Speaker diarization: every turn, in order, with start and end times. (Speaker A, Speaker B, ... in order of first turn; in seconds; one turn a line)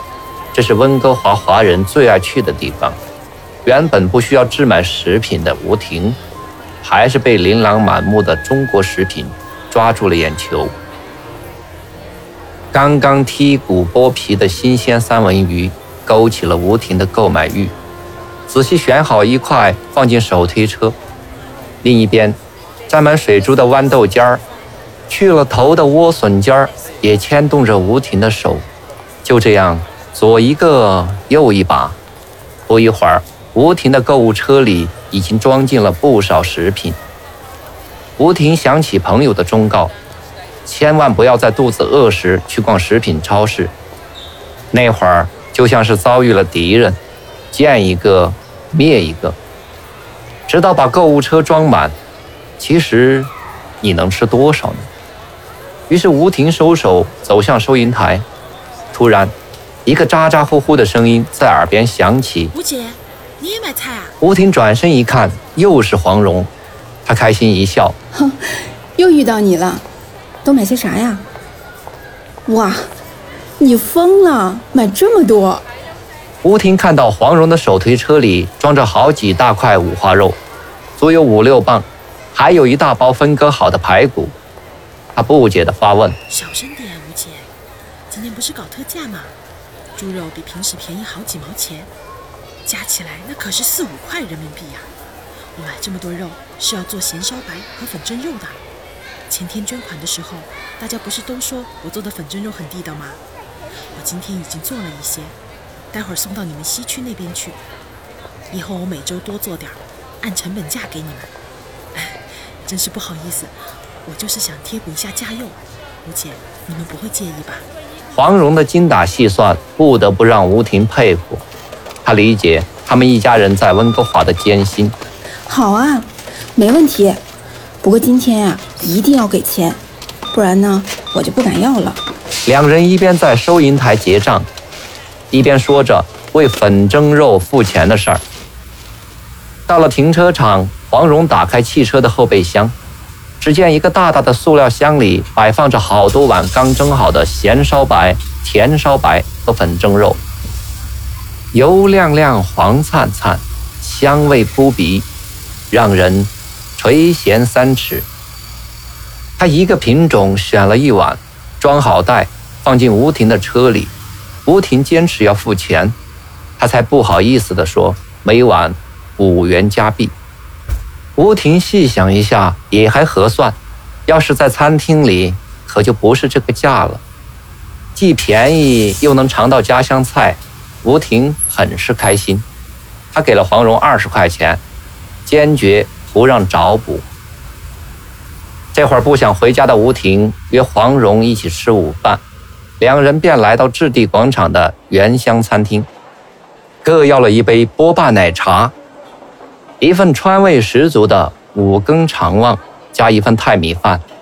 Speaker A: 0.5-3.0
Speaker A: 3.6-6.2
Speaker A: 6.8-10.8
Speaker A: 12.7-17.8
Speaker A: 18.5-21.0
Speaker A: 21.8-24.4
Speaker A: 25.1-28.7
Speaker A: 29.2-32.0
Speaker A: 32.7-37.0
Speaker A: 38.2-39.9
Speaker A: 40.6-43.7
Speaker A: 44.7-47.0
Speaker A: 47.5-49.4
Speaker A: 50.5-52.0
Speaker A: 52.6-54.9
Speaker A: 55.9-58.3
Speaker A: 58.9-59.4
Speaker A: 59.9-62.5
Speaker B: 62.5-64.2
Speaker A: 64.2-66.5
Speaker A: 67.0-68.0
Speaker C: 68.1-69.8
Speaker C: 70.5-71.3
Speaker C: 72.5-72.9
Speaker C: 73.6-75.7
Speaker A: 76.4-80.4
Speaker A: 81.0-84.4
Speaker A: 85.2-86.2
Speaker B: 86.3-87.5
Speaker B: 88.1-89.4
Speaker B: 90.0-91.9
Speaker B: 92.7-94.9
Speaker B: 95.5-98.6
Speaker B: 99.3-103.2
Speaker B: 103.9-105.4
Speaker B: 105.9-107.6
Speaker B: 108.5-111.3
Speaker B: 111.9-117.7
Speaker A: 118.1-121.4
Speaker A: 122.0-125.0
Speaker C: 125.5-127.2
Speaker C: 127.8-132.0
Speaker A: 132.5-134.5
Speaker A: 135.3-138.2
Speaker A: 139.7-142.8
Speaker A: 143.4-150.2
Speaker A: 151.5-155.1
Speaker A: 155.7-158.1
Speaker A: 159.4-163.9
Speaker A: 164.5-166.0
Speaker A: 166.6-170.2
Speaker A: 171.2-177.0
Speaker A: 178.0-182.5
Speaker A: 183.1-184.6
Speaker A: 185.3-187.1
Speaker A: 188.7-192.2
Speaker A: 192.8-195.9
Speaker A: 196.8-198.8
Speaker A: 199.8-204.0